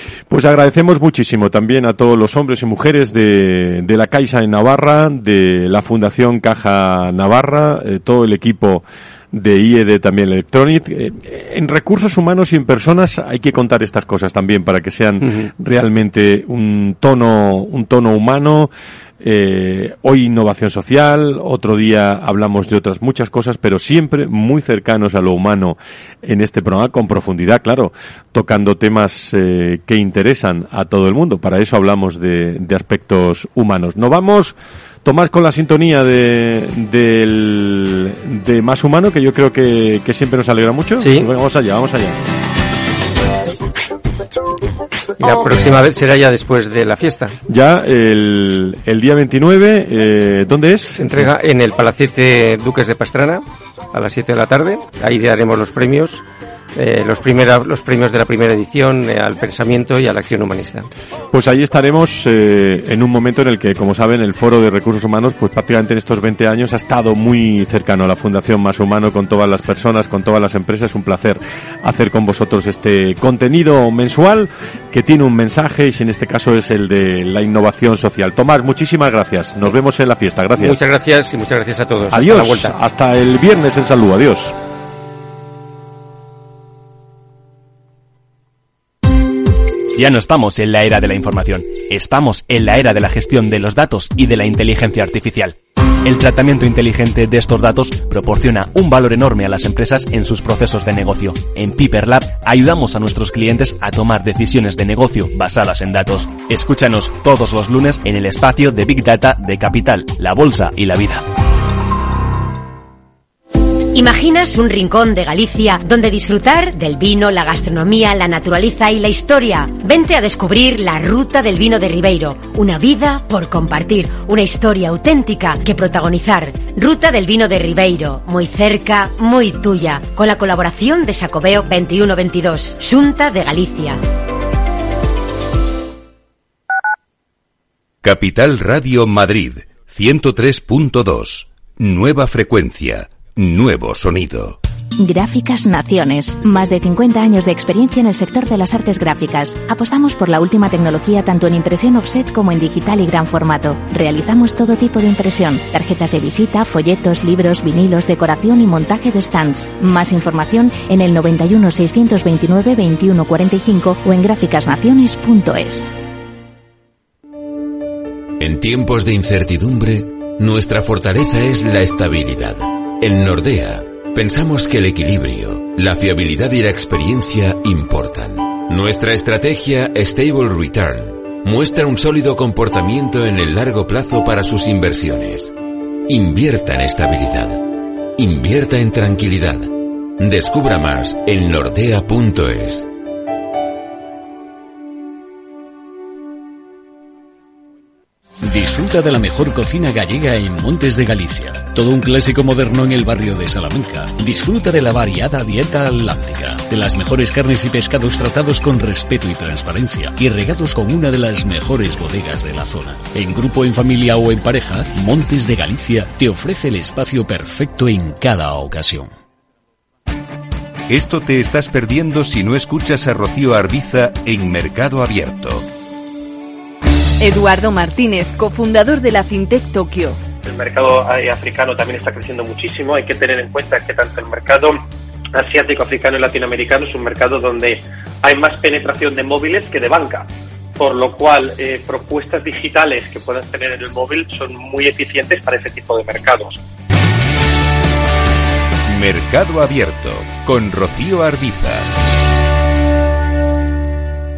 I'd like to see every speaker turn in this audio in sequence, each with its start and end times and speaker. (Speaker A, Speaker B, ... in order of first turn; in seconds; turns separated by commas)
Speaker A: 0.3-42.2, Speaker B: 15.2-15.5, Speaker B: 41.0-41.3, Speaker B: 45.2-47.4, Speaker A: 47.5-51.3, Speaker B: 51.0-56.2, Speaker B: 56.8-60.9, Speaker A: 61.3-80.8, Speaker B: 80.5-82.8, Speaker A: 82.1-84.5, Speaker C: 89.9-111.2, Speaker D: 113.9-134.0, Speaker E: 138.0-144.6, Speaker F: 145.0-165.9, Speaker G: 168.4-185.6, Speaker G: 186.1-192.9, Speaker H: 198.4-219.1, Speaker E: 220.9-225.7, Speaker I: 227.2-230.2, Speaker J: 230.4-234.8, Speaker J: 235.3-240.2, Speaker J: 240.8-246.6, Speaker E: 248.9-251.9